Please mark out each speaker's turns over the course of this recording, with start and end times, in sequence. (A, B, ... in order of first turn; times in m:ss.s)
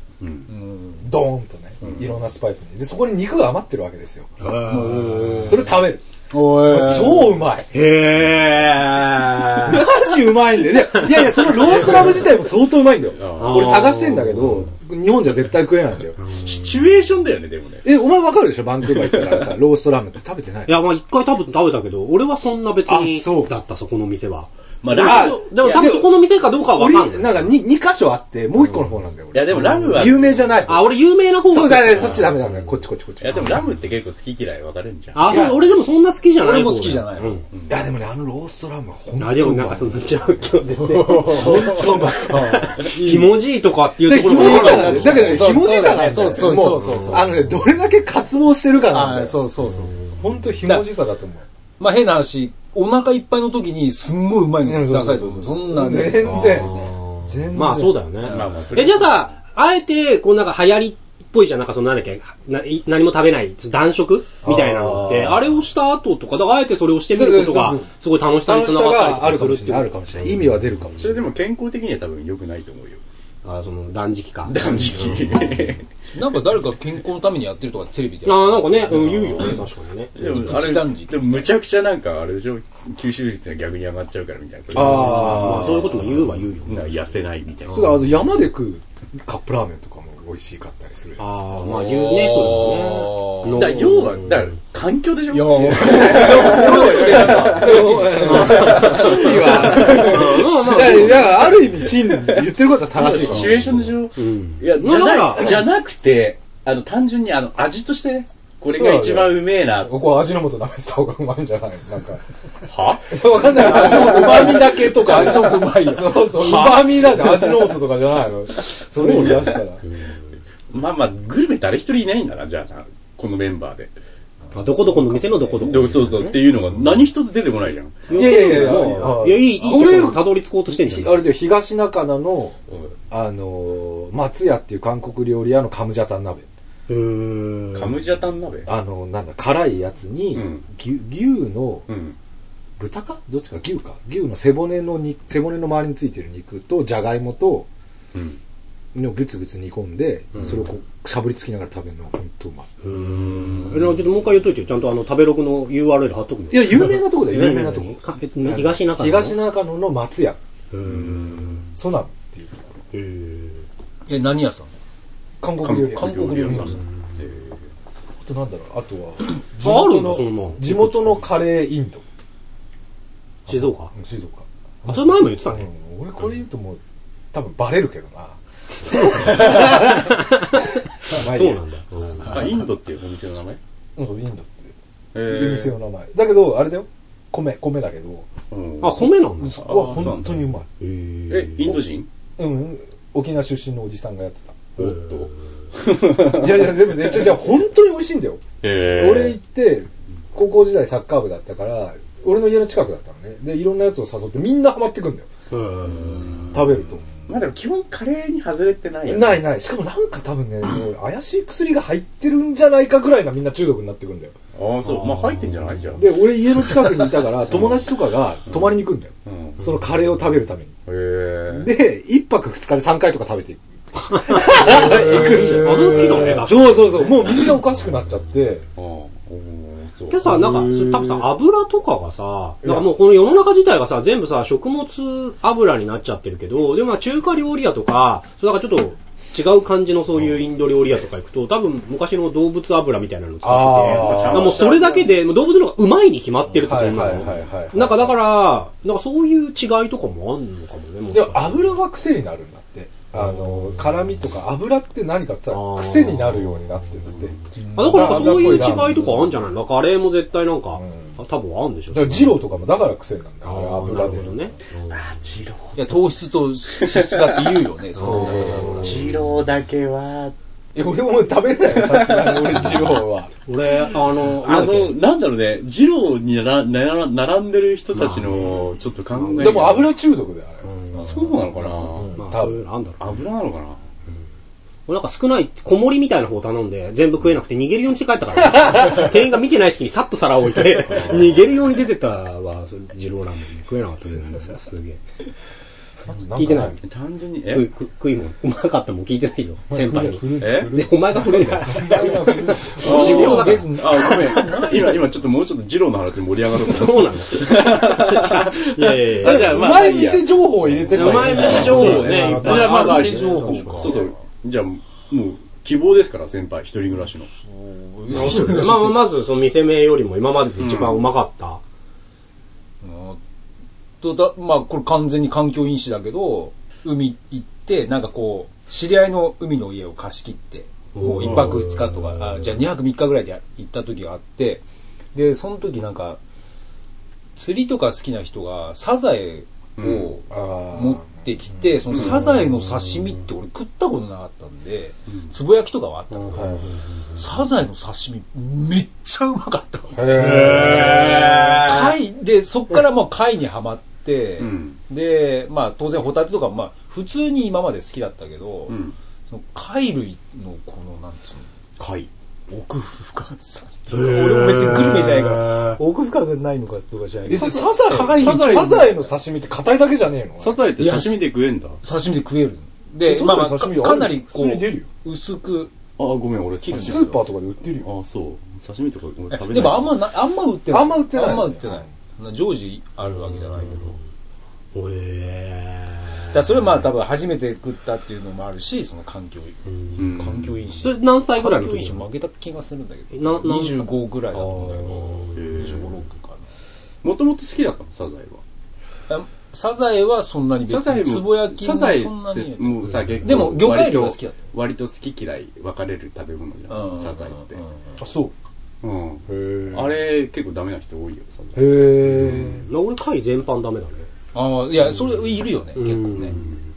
0:00.2-0:00.5 A
0:00.5-0:01.1 B
0:01.0-0:04.3 C
0:01.8-0:02.1 A
0:04.4-0:05.6 D
0:04.6-0:07.4 B
0:05.4-0:07.7 C
0:07.7-0:10.0 D
0:09.6-0:16.2 C
0:11.0-0:12.3 D
0:13.1-0:14.0 A
0:13.4-0:14.7 D
0:16.4-0:17.9 A
0:17.8-0:20.8 C
0:19.0-0:19.3 A
0:20.7-0:27.5 D
0:22.9-0:23.5 C
0:24.8-0:26.1 A
0:25.0-0:26.1 C
0:26.7-0:30.9 C
0:29.3-0:30.9 A
0:30.7-0:32.5 D
0:31.5-0:33.6 C
0:32.0-0:32.2 A
0:33.2-0:35.4 A
0:35.1-0:37.5 D
0:35.3-0:35.6 C
0:36.4-0:37.4 B
0:37.5-0:37.8 A
0:37.7-0:40.0 C
0:39.2-0:45.4 D
0:40.7-0:43.3 B
0:41.2-0:43.2 C
0:44.0-0:49.4 C
0:44.2-0:47.5 B
0:46.7-0:47.2 D
0:48.9-0:50.9 B
0:50.2-0:51.4 C
0:51.8-0:56.9 B
0:54.6-0:58.0 C
0:56.3-1:10.4 D
0:58.2-0:58.9 B
0:58.2-0:59.3 A
1:04.4-1:05.5 C
1:07.1-1:07.9 C
1:08.4-1:11.3 C
1:11.0-1:13.0 A
1:13.4-1:15.4 D
1:14.4-1:15.9 A
1:16.1-1:21.4 B
1:18.2-1:20.5 D
1:20.2-1:25.8 A
1:24.7-1:26.0 C
1:24.8-1:27.0 D
1:26.7-1:28.1 A
1:27.7-1:28.0 D
1:27.7-1:31.2 C
1:31.2-1:34.5 D
1:31.6-1:33.8 B
1:33.4-1:50.0 A
1:35.3-1:38.9 B
1:35.4-1:41.5 D
1:35.7-1:43.9 C
1:44.2-1:45.7 D
1:48.7-1:52.2 C
1:52.7-1:54.5 A
1:53.1-1:59.8 C
1:53.5-1:57.8 B
1:58.9-1:59.7 A
2:00.7-2:03.9 A
2:04.5-2:06.4 D
2:05.6-2:09.2 A
2:08.1-2:11.2 D
2:08.1-2:12.6 C
2:12.7-2:13.0 A
2:13.1-2:16.5 C
2:16.9-2:18.0 D
2:17.7-2:18.7 A
2:18.7-2:21.9 C
2:20.3-2:20.6 A
2:21.9-2:22.2 A
2:22.8-2:27.7 C
2:28.1-2:28.4 A
2:28.9-2:32.7 C
2:32.8-2:39.4 D
2:33.0-2:34.0 A
2:36.5-2:40.4 C
2:40.7-2:41.7 D
2:40.8-2:41.7 A
2:41.8-2:42.6 C
2:42.9-2:43.7 D
2:44.1-2:44.7 B
2:45.4-2:46.8 C
2:45.6-2:47.6 A
2:45.7-2:46.8 B
2:48.2-2:52.0 C
2:49.6-2:51.3 D
2:53.5-2:53.9 D
2:53.5-2:56.8 C
2:54.8-2:55.7 D
2:57.3-3:00.3 C
2:58.9-3:02.5 D
3:01.0-3:01.6 C
3:02.2-3:03.6 A
3:04.0-3:04.7 C
3:05.1-3:05.8 A
3:05.2-3:08.3 C
3:08.5-3:10.5 A
3:08.8-3:09.6 D
3:09.4-3:10.7 C
3:10.8-3:11.8 D
3:11.3-3:12.1 A
3:12.4-3:14.7 C
3:14.8-3:17.3 A
3:16.2-3:18.4 C
3:18.6-3:19.4 A
3:19.0-3:25.3 C
3:25.5-3:26.4 D
3:25.9-3:26.6 A
3:26.5-3:27.0 C
3:27.3-3:29.5 A
3:29.1-3:34.4 C
3:34.5-3:39.8 A
3:34.8-3:35.6 D
3:36.0-3:40.7 C
3:40.9-3:41.7 A
3:41.5-3:48.7 C
3:44.1-3:47.5 D
3:44.8-3:45.3 A
3:48.8-3:50.3 A
3:50.1-4:11.8 D
3:50.3-3:51.2 C
3:52.6-3:52.9 C
4:03.4-4:04.7 C
4:03.9-4:05.2 A
4:06.6-4:08.1 C
4:11.1-4:19.3 C
4:15.5-4:16.9 D
4:17.6-4:18.7 B
4:17.7-4:22.4 D
4:20.8-4:21.1 C
4:21.9-4:24.4 C
4:23.4-4:25.0 D
4:24.9-4:26.0 A
4:25.8-4:29.0 B
4:26.7-4:27.7 A
4:28.0-4:29.1 D
4:28.0-4:28.8 C
4:28.6-4:30.4 A
4:30.8-4:33.3 C
4:31.7-4:33.0 A
4:33.5-4:35.0 D
4:34.4-4:40.0 A
4:38.0-4:38.5 D
4:39.3-4:40.6 C
4:40.7-4:41.1 D
4:41.0-4:42.2 A
4:41.9-4:42.6 C
4:42.1-4:43.0 D
4:43.0-4:43.8 A
4:44.9-4:55.0 D
4:48.5-4:49.0 C
4:50.9-4:51.3 A
4:56.1-4:56.8 C
4:56.4-4:56.8 D
4:56.8-4:57.7 A
4:57.5-5:04.6 D
4:59.7-5:03.6 C
5:00.4-5:00.8 A
5:02.6-5:05.1 B
5:02.7-5:17.3 A
5:06.6-5:09.7 D
5:09.2-5:12.9 C
5:10.9-5:14.0 D
5:11.3-5:14.2 B
5:17.4-5:19.1 B
5:18.1-5:21.6 D
5:20.6-5:21.1 A
5:22.8-5:23.2 B
5:24.0-5:34.6 B
5:31.0-5:32.0 D
5:31.2-5:31.6 A
5:35.1-5:36.2 B
5:37.4-5:58.8 B
5:39.8-5:40.1 A
5:40.3-5:41.1 C
5:41.9-5:42.2 A
5:46.3-5:46.7 C
5:50.0-5:51.4 C
5:50.2-5:51.9 D
5:54.4-5:54.8 A
5:58.7-5:59.0 A
5:59.3-6:01.5 B
6:01.8-6:02.1 A
6:02.5-6:09.1 B
6:03.9-6:05.8 D
6:07.3-6:10.6 C
6:08.2-6:08.6 A
6:10.4-6:11.8 A
6:10.8-6:11.3 B
6:11.8-6:15.7 B
6:13.0-6:14.9 C
6:16.0-6:17.2 A
6:16.6-6:17.2 B
6:16.8-6:17.9 C
6:17.8-6:20.0 A
6:19.3-6:24.0 B
6:20.7-6:21.8 C
6:23.4-6:24.0 D
6:24.7-6:26.4 D
6:26.3-6:36.4 B
6:30.0-6:30.6 A
6:30.8-6:32.0 D
6:33.1-6:35.5 D
6:35.3-6:36.0 A
6:37.0-6:38.4 A
6:39.1-6:44.4 B
6:40.6-6:47.6 A
6:46.7-6:47.7 B
6:48.0-6:48.3 C
6:48.8-6:51.9 A
6:49.3-6:49.9 C
6:51.6-6:52.6 C
6:52.5-6:54.1 D
6:54.3-6:56.4 B
6:55.8-6:56.6 D